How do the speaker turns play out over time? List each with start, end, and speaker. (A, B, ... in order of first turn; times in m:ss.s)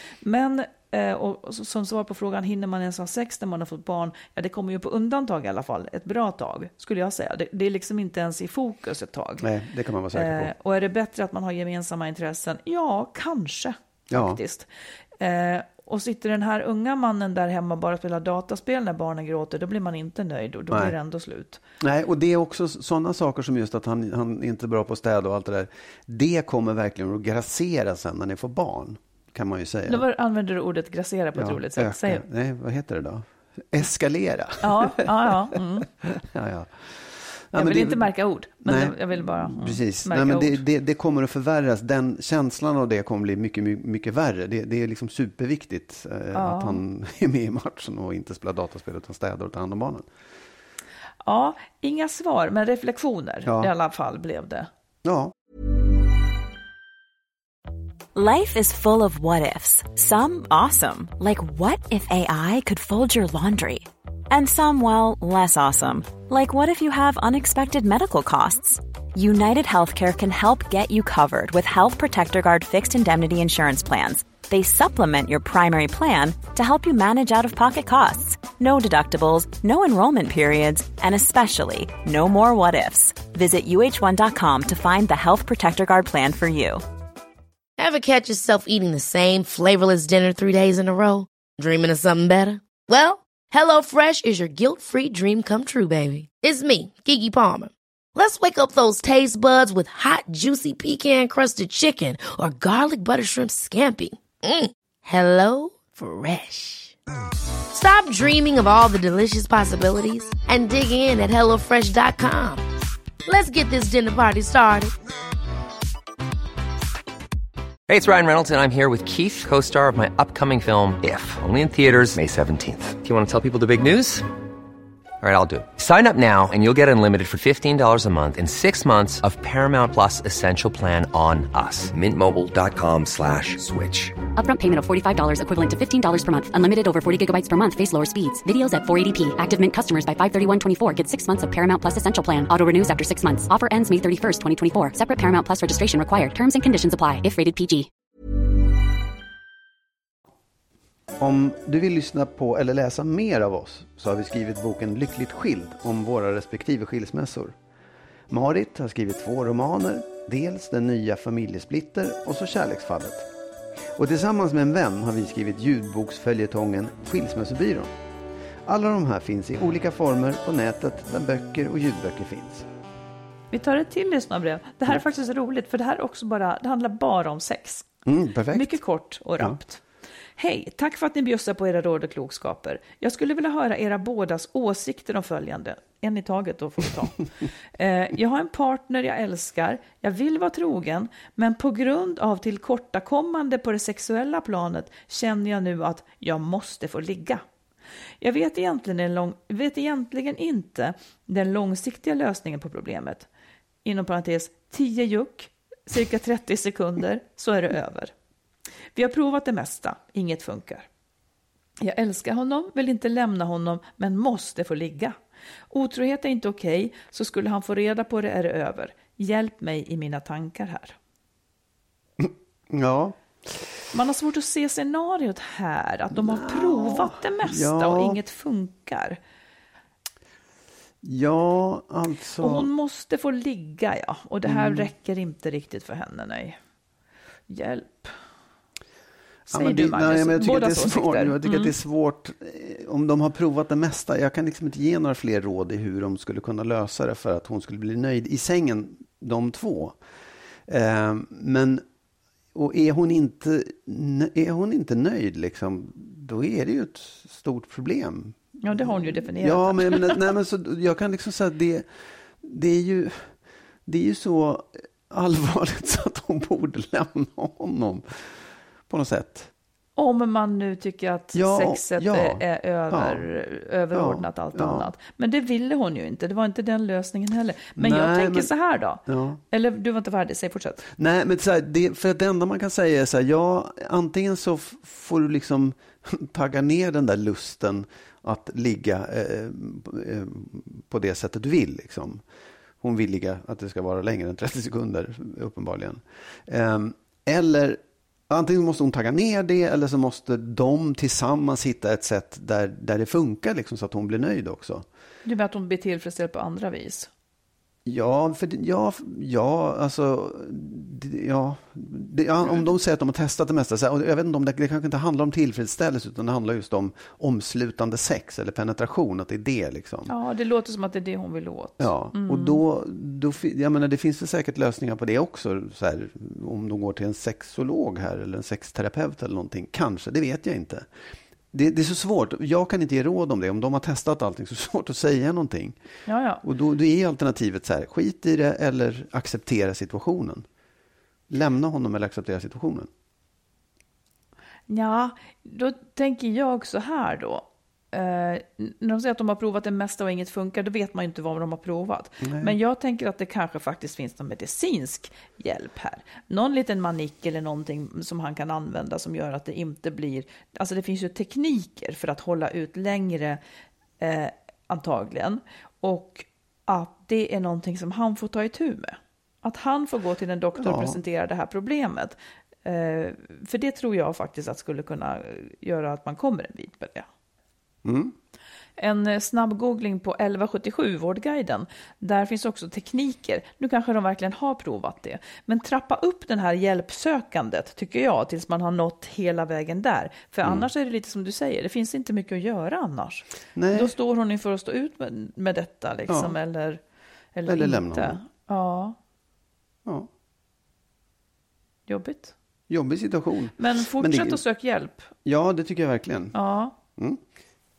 0:00.2-0:09.5 A
0:09.4-0:10.5 B
0:10.1-0:14.7 A
0:14.1-0:14.4 B
0:15.2-0:21.6 A
0:21.8-0:30.0 B
0:29.9-0:32.2 A
0:31.4-0:38.1 B
0:34.6-0:35.9 A
0:37.6-0:40.6 A
0:38.6-0:50.1 B
0:46.3-0:46.8 A
0:51.2-0:54.7 A
0:53.4-0:53.7 B
0:55.0-0:55.3 B
0:58.1-1:26.8 C
1:27.8-1:46.9 D
1:47.7-1:52.6 D
1:53.2-1:54.9 D
1:57.9-2:04.3 E
2:05.2-2:14.2 E
2:14.3-2:27.9 F
2:31.2-2:37.6 B
2:38.3-2:43.3 B
2:43.9-2:47.9 B
2:48.6-2:52.7 B
2:53.5-2:57.9 A
2:58.1-2:58.8 B
2:58.5-2:59.8 A
3:00.4-3:07.2 A
3:07.8-3:17.4 A
3:18.2-3:23.3 A
3:23.8-3:28.1 A
3:28.9-3:30.9 A
3:31.8-3:35.2 A
3:35.7-3:41.0 A
3:42.2-3:43.7 B
3:43.9-3:49.2 A
3:46.1-3:48.2 B
3:51.0-3:52.7 B
3:52.4-3:56.6 A
3:54.4-3:54.9 B
3:57.5-3:58.1 A
3:59.5-4:10.0 B
3:59.5-4:01.7 A
4:10.7-4:11.8 B
4:12.5-4:21.9 B
4:18.6-4:20.2 A
4:22.4-4:23.3 B
4:23.9-4:28.4 B
4:28.9-4:29.5 B
4:30.0-4:40.9 A
4:31.3-4:33.3 B
4:33.9-4:34.9 B
4:37.8-4:38.5 B
4:39.1-4:39.4 B
4:41.0-4:52.2 B
4:52.8-5:04.9 B
5:05.2-5:07.1 A
5:07.9-5:20.1 B
5:20.1-5:22.6 A
5:21.8-5:30.9 B
5:31.5-5:35.8 B
5:36.1-5:36.4 A
5:36.4-5:40.4 B
5:41.3-5:42.9 B
5:44.7-6:03.4 A
5:52.2-5:52.6 B
6:04.0-6:17.1 A
6:10.6-6:11.0 B
6:17.8-6:18.1 B
6:18.8-6:36.8 A
6:33.6-6:33.9 B
6:36.1-6:36.3 B
6:37.4-6:39.0 A
6:37.4-6:38.2 B
6:41.9-6:42.3 A
6:42.7-6:44.4 B
6:43.6-6:45.1 A
6:45.2-6:46.4 B
6:46.3-6:46.7 A
6:47.0-6:47.2 B